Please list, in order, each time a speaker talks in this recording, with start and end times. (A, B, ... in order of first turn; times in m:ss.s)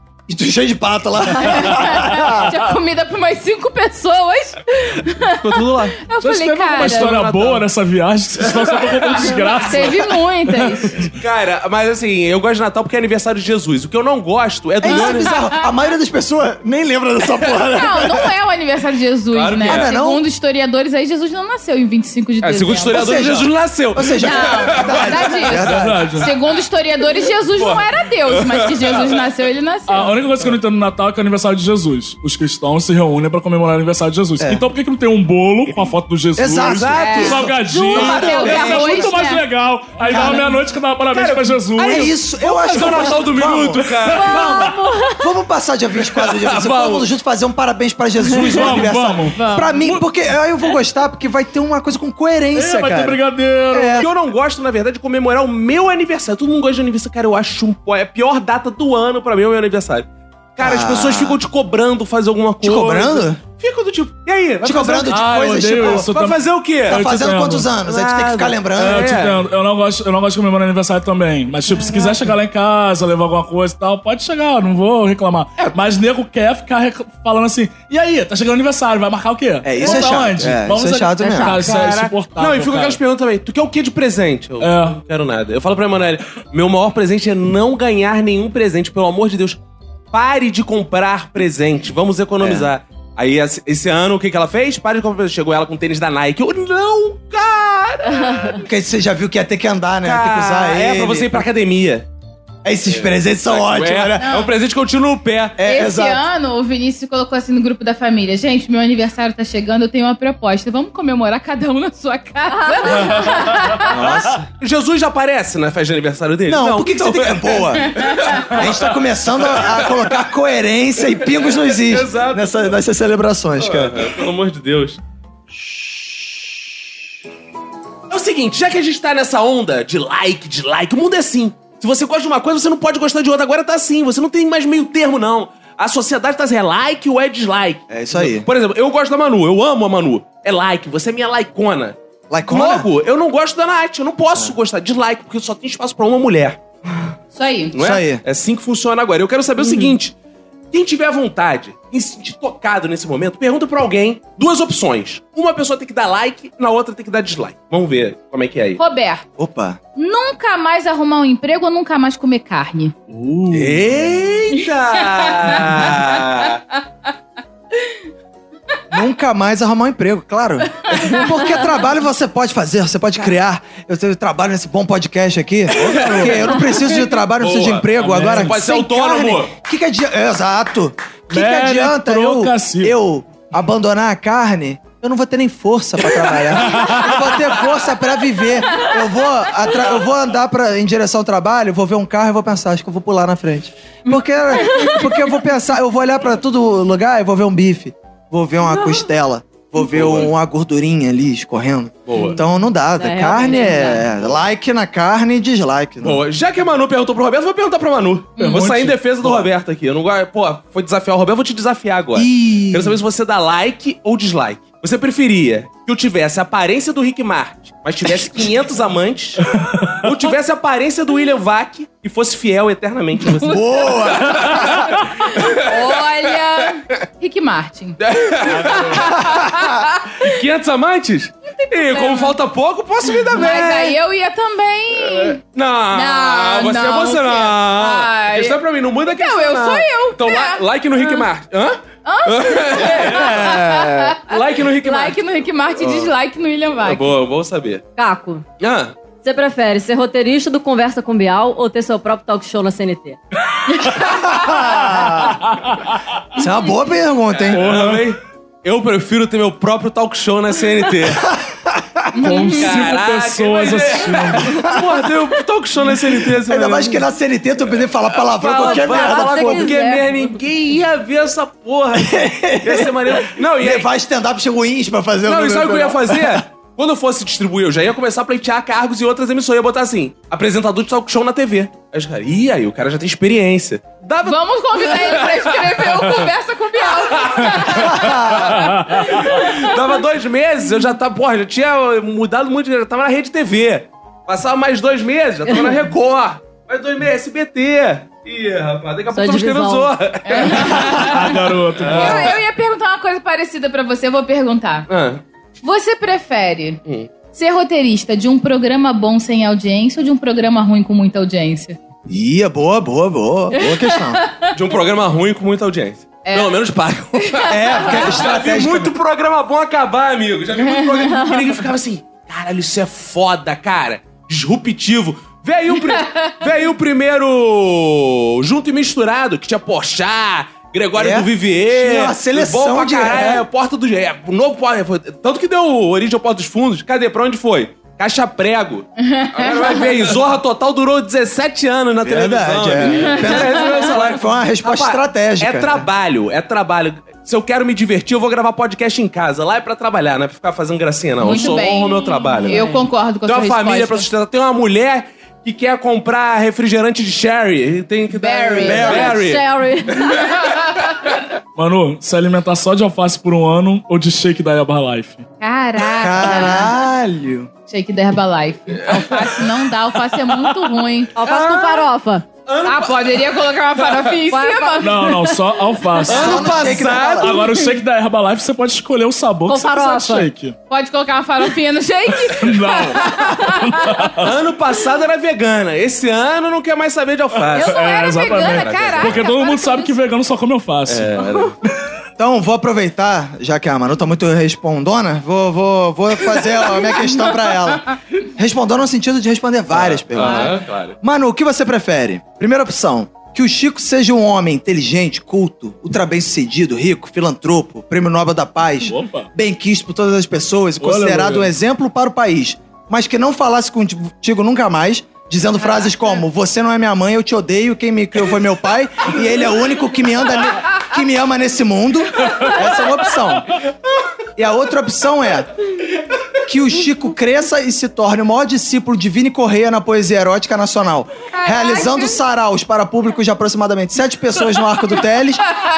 0:00.3-0:02.5 A
0:01.4-0:07.2 B
0:05.3-0:06.0 C
0:06.2-0:11.1 D
0:06.8-0:07.6 C
0:08.4-0:09.7 C
0:09.3-0:11.0 B
0:11.2-0:15.3 C
0:14.8-0:18.3 A
0:14.8-0:15.7 B
0:17.7-0:23.2 B
0:19.3-0:19.9 C
0:19.6-0:20.2 A
0:22.4-0:25.6 C
0:22.9-0:26.2 A
0:24.2-0:30.2 B
0:25.6-0:26.3 D
0:27.5-0:29.2 C
0:29.9-0:42.2 D
0:34.4-0:34.6 A
0:36.4-0:39.2 A
0:36.6-0:37.4 C
0:36.9-0:39.5 B
0:40.1-0:40.5 A
0:41.1-0:44.4 C
0:41.8-0:53.2 A
0:42.7-0:43.0 D
0:44.4-0:44.7 D
0:44.8-0:45.2 E
0:46.2-0:47.1 C
0:48.4-0:50.0 D
0:49.4-0:49.6 B
0:52.5-0:54.0 D
0:53.7-0:54.1 A
0:54.0-1:07.0 C
1:00.6-1:01.4 A
1:02.6-1:03.4 A
1:04.6-1:06.1 A
1:05.1-1:07.7 D
1:06.9-1:09.1 A
1:07.8-1:09.4 C
1:08.8-1:23.0 D
1:19.6-1:21.6 A
1:19.8-1:20.2 C
1:21.2-1:21.6 E
1:21.6-1:29.6 C
1:24.6-1:25.0 D
1:30.1-1:38.6 C
1:32.4-1:32.7 A
1:38.6-1:41.5 A
1:40.0-1:42.1 C
1:42.6-1:44.4 A
1:42.8-1:45.6 C
1:44.2-1:44.5 B
1:45.6-1:46.2 A
1:45.6-1:54.0 B
1:52.5-1:53.1 E
1:53.9-1:54.4 A
1:54.6-1:58.9 C
1:56.5-2:04.1 A
1:57.9-1:58.4 B
1:59.5-2:00.2 C
2:01.2-2:02.7 C
2:03.6-2:05.0 C
2:08.1-2:22.0 C
2:17.9-2:18.5 A
2:22.3-2:22.9 A
2:22.5-2:26.6 C
2:27.3-2:27.7 B
2:27.7-2:30.1 C
2:27.8-2:28.2 A
2:30.7-2:38.8 C
2:38.8-2:39.2 B
2:39.4-2:39.8 A
2:40.0-2:42.9 B
2:43.1-2:43.8 D
2:43.5-2:46.6 C
2:45.4-2:45.9 B
2:48.9-3:26.2 A
2:50.9-2:51.3 B
2:55.7-2:56.7 C
2:55.8-2:56.3 D
2:57.4-2:59.5 C
2:58.0-2:58.5 D
3:01.3-3:02.9 D
3:06.7-3:07.1 D
3:14.7-3:15.0 B
3:19.8-3:20.3 C
3:22.1-3:22.4 C
3:23.0-3:24.1 E
3:26.0-3:39.5 C
3:28.4-3:28.7 B
3:28.4-3:29.4 D
3:32.1-3:33.0 A
3:39.5-3:40.1 D
3:40.0-3:46.0 C
3:43.4-3:43.7 B
3:43.4-3:44.7 A
3:45.0-3:48.0 B
3:48.0-3:49.5 C
3:48.6-3:50.3 B
3:50.2-3:54.0 C
3:51.5-3:52.3 B
3:53.2-3:55.4 B
3:55.0-4:05.2 C
3:55.9-4:01.2 B
4:02.0-4:07.1 B
4:05.8-4:06.1 C
4:06.8-4:07.8 C
4:08.0-4:08.4 E
4:08.6-4:08.9 C
4:09.2-4:13.2 E
4:14.0-4:15.4 A
4:15.4-4:16.0 D
4:16.4-4:17.7 A
4:17.3-4:21.2 C
4:17.5-4:18.1 D
4:21.2-4:22.1 A
4:22.1-4:22.9 B
4:22.2-4:24.7 D
4:22.4-4:27.0 C
4:26.4-4:29.7 A
4:28.2-4:33.9 C
4:28.4-4:30.2 E
4:31.9-4:36.4 A
4:35.2-5:02.4 C
4:44.2-4:48.2 B
4:47.9-4:48.5 A
4:48.6-4:49.1 D
4:49.2-4:49.8 B
4:59.1-4:59.9 E
5:00.2-5:04.9 B
5:00.7-5:02.3 D
5:04.9-5:05.2 C
5:05.6-5:11.8 B
5:12.1-5:14.2 A
5:13.5-5:14.5 B
5:14.5-5:52.7 C
5:16.2-5:16.6 B
5:17.2-5:18.2 B
5:17.5-5:18.9 A
5:20.6-5:21.4 B
5:25.9-5:26.2 B
5:30.9-5:33.4 A
5:39.0-5:39.9 B
5:42.0-5:45.8 A
5:51.2-5:54.1 B
5:52.4-5:52.8 E
5:53.2-5:59.4 C
5:58.1-5:59.1 B
5:58.6-5:59.2 A
5:58.8-6:00.3 E
6:01.6-6:05.2 D
6:05.4-6:06.7 B
6:05.9-6:07.5 A
6:07.7-6:11.1 B
6:08.9-6:09.3 C
6:11.2-6:12.2 E
6:11.2-6:11.9 C
6:12.4-6:14.2 C
6:12.6-6:15.4 B
6:14.3-6:15.1 E
6:14.8-6:16.4 D
6:16.0-6:17.5 C
6:16.1-6:17.4 A
6:17.2-6:20.6 D
6:19.4-6:20.3 E
6:20.7-6:24.1 B
6:22.3-6:24.3 D
6:24.2-6:29.2 C
6:27.5-6:30.0 B
6:27.5-6:31.7 D
6:30.9-6:31.5 C
6:32.2-7:03.5 A
6:39.7-6:41.0 C
6:48.8-6:49.3 D
6:50.8-6:51.5 D
7:04.4-7:05.5 A
7:06.4-7:15.4 A
7:11.4-7:12.2 B